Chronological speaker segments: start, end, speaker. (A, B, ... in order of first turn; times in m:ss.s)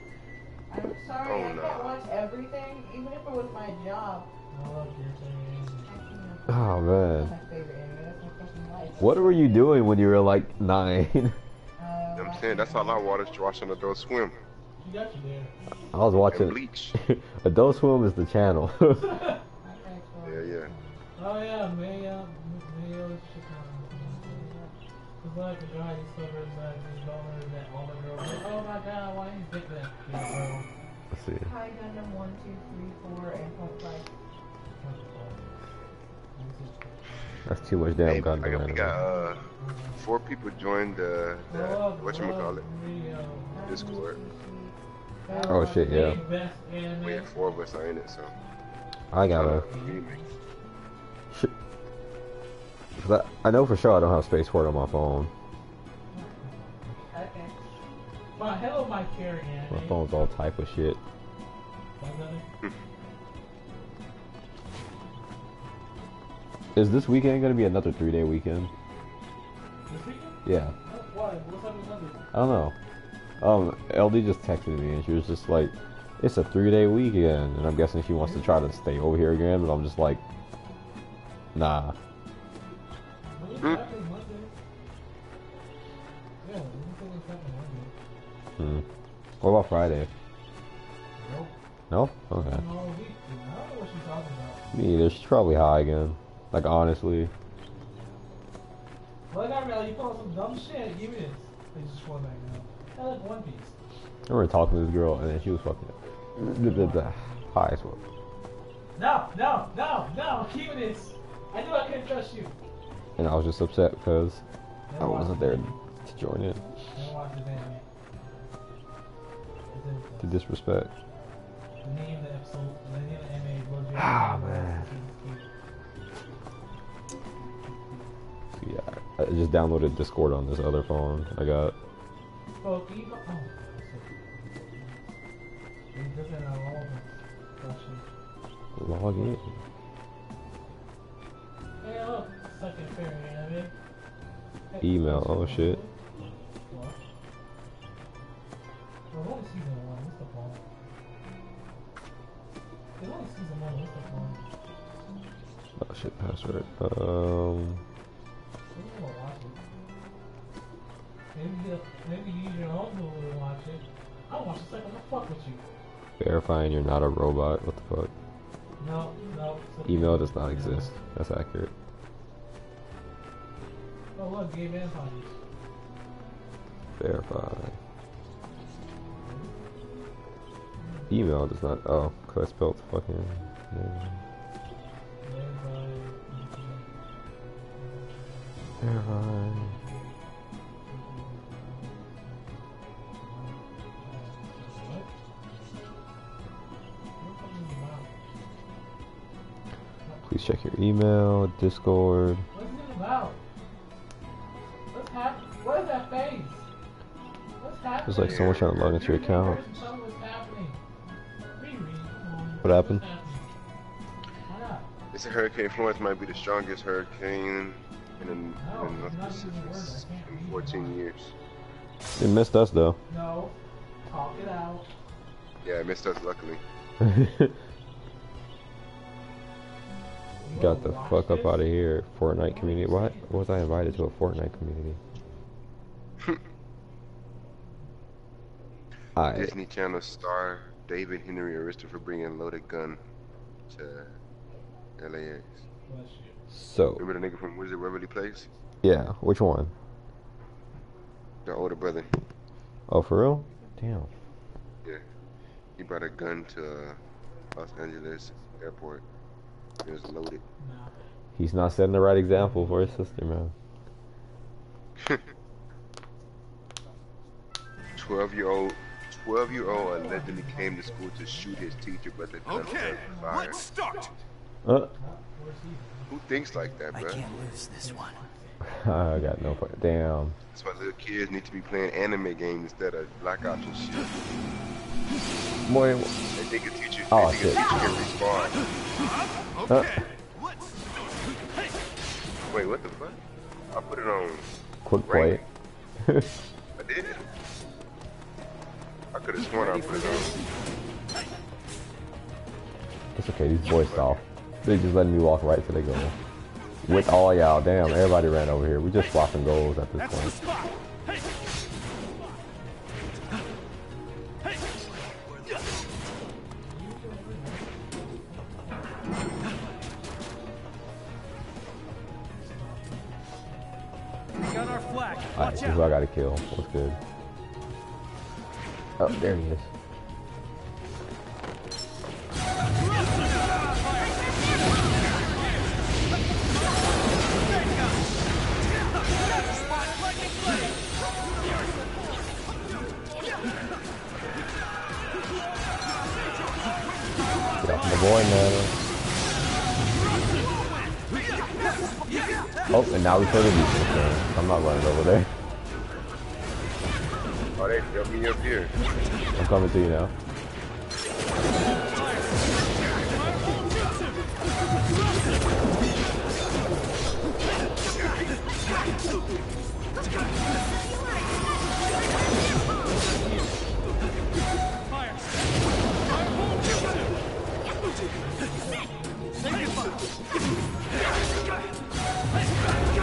0:00.7-0:04.3 A
0:01.2-0:02.0 B
0:04.5-0:05.9 C
0:05.8-0:09.6 A
0:06.5-0:07.3 D
0:09.0-0:11.4 D
0:11.8-0:13.1 A
0:12.2-0:14.4 B
0:14.8-0:15.5 C
0:15.9-0:19.2 D
0:16.3-0:16.9 B
0:19.0-0:19.4 C
0:19.6-0:21.0 A
0:20.2-0:20.7 B
0:21.2-0:24.5 C
0:24.0-0:24.7 A
0:25.2-0:30.7 C
0:31.1-0:31.5 D
0:31.4-0:34.1 A
0:34.8-0:35.4 C
0:36.3-0:37.5 C
0:37.4-0:39.0 D
0:38.0-0:39.5 B
0:39.0-0:39.4 A
0:39.6-0:40.1 C
0:40.0-0:42.6 B
0:41.5-0:43.6 C
0:43.5-0:46.3 A
0:43.7-0:44.2 B
0:45.3-0:47.3 C
0:45.5-0:46.2 D
0:47.0-0:48.3 B
0:49.1-0:49.6 D
0:49.3-0:50.2 B
0:49.7-0:50.3 C
0:53.0-0:55.3 D
0:56.1-0:57.1 C
0:57.1-0:57.6 A
0:58.3-1:00.0 C
0:59.7-1:01.0 D
1:02.0-1:02.4 C
1:06.7-1:08.7 D
1:09.9-1:12.3 C
1:10.4-1:10.7 D
1:12.3-1:12.7 D
1:13.4-1:20.2 D
1:18.2-1:18.6 C
1:21.5-1:21.9 D
1:23.4-1:24.5 C
1:26.4-1:27.9 C
1:28.6-1:28.8 D
1:29.4-1:30.1 D
1:31.2-1:31.5 C
1:31.9-1:32.6 D
1:32.4-1:34.7 C
1:34.7-1:37.3 D
1:39.3-1:43.7 C
1:44.3-1:48.0 D
1:46.4-1:47.5 C
1:49.0-1:52.5 C
1:53.2-1:54.4 D
1:54.9-1:56.0 C
1:55.0-1:56.6 D
1:56.9-1:57.8 C
1:59.7-2:00.4 C
2:00.2-2:00.9 D
2:01.8-2:05.5 C
2:03.9-2:04.8 D
2:07.3-2:08.3 C
2:08.6-2:11.8 D
2:12.6-2:15.1 C
2:15.9-2:18.1 C
2:18.8-2:19.6 D
2:19.1-2:19.6 C
2:21.8-2:23.7 C
2:24.7-2:25.9 C
2:24.8-2:25.8 D
2:26.6-2:27.0 C
2:29.1-2:30.6 C
2:33.0-2:34.6 C
2:35.8-2:37.8 D
2:38.7-2:39.6 C
2:41.3-2:45.6 C
2:46.2-2:48.1 D
2:48.8-2:51.0 C
2:49.8-2:51.7 D
2:54.2-2:55.4 C
2:57.0-2:57.8 D
2:59.2-2:59.5 C
3:00.8-3:01.1 C
3:01.1-3:04.2 D
3:05.2-3:06.9 C
3:07.8-3:10.2 C
3:08.8-3:09.7 D
3:10.9-3:12.6 C
3:13.2-3:15.1 C
3:17.2-3:18.3 C
3:20.2-3:22.4 D
3:22.5-3:23.4 C
3:24.9-3:26.6 C
3:27.6-3:30.8 C
3:28.0-3:29.6 D
3:28.2-3:29.1 B
3:31.6-3:33.5 C
3:32.6-3:33.0 D
3:34.5-3:34.9 C
3:35.1-3:41.3 B
3:38.6-3:41.0 C
3:42.2-3:43.0 D
3:43.1-3:43.5 C
3:44.0-3:44.9 C
3:45.6-3:46.6 B
3:47.0-3:47.6 D
3:50.4-3:51.6 C
3:50.6-3:55.0 D
3:52.4-3:53.4 C
3:59.1-3:59.5 D
3:59.3-4:03.0 B
4:03.7-4:04.2 B
4:05.0-4:05.6 B
4:05.9-4:06.4 C
4:06.5-4:07.0 D
4:07.0-4:08.5 B
4:08.8-4:09.7 D
4:11.4-4:12.2 B
4:12.9-4:14.1 D
4:15.8-4:17.0 B
4:17.5-4:19.0 B
4:19.8-4:20.4 B
4:20.6-4:21.0 C
4:21.3-4:23.5 D
4:22.3-4:23.1 C
4:28.0-4:34.0 B
4:29.5-4:31.9 C
4:32.5-4:34.1 E
4:33.0-4:33.5 C
4:34.6-4:34.9 D
4:35.0-4:38.6 C
4:36.1-4:37.2 B
4:36.9-4:38.2 E
4:38.6-4:40.4 D
4:40.5-4:44.1 B
4:45.7-4:46.1 D
4:46.4-4:48.6 B
4:47.1-4:47.6 D
4:49.5-4:50.6 E
4:49.7-4:50.0 D
4:52.5-4:53.2 B
4:53.7-4:54.5 B
4:54.8-4:55.4 D
4:55.0-4:55.4 B
4:56.0-4:56.3 D
4:56.8-4:57.2 B
4:59.1-5:00.4 B
5:03.1-5:06.1 D
5:03.9-5:04.2 B
5:06.8-5:10.4 D
5:16.6-5:18.9 C
5:22.3-5:23.1 C
5:24.7-5:25.4 E
5:25.4-5:27.0 D
5:29.0-5:29.7 D
5:47.6-5:48.7 D
5:52.7-5:55.3 D
5:57.6-5:58.7 B
5:59.4-6:00.1 D
6:18.2-6:19.5 C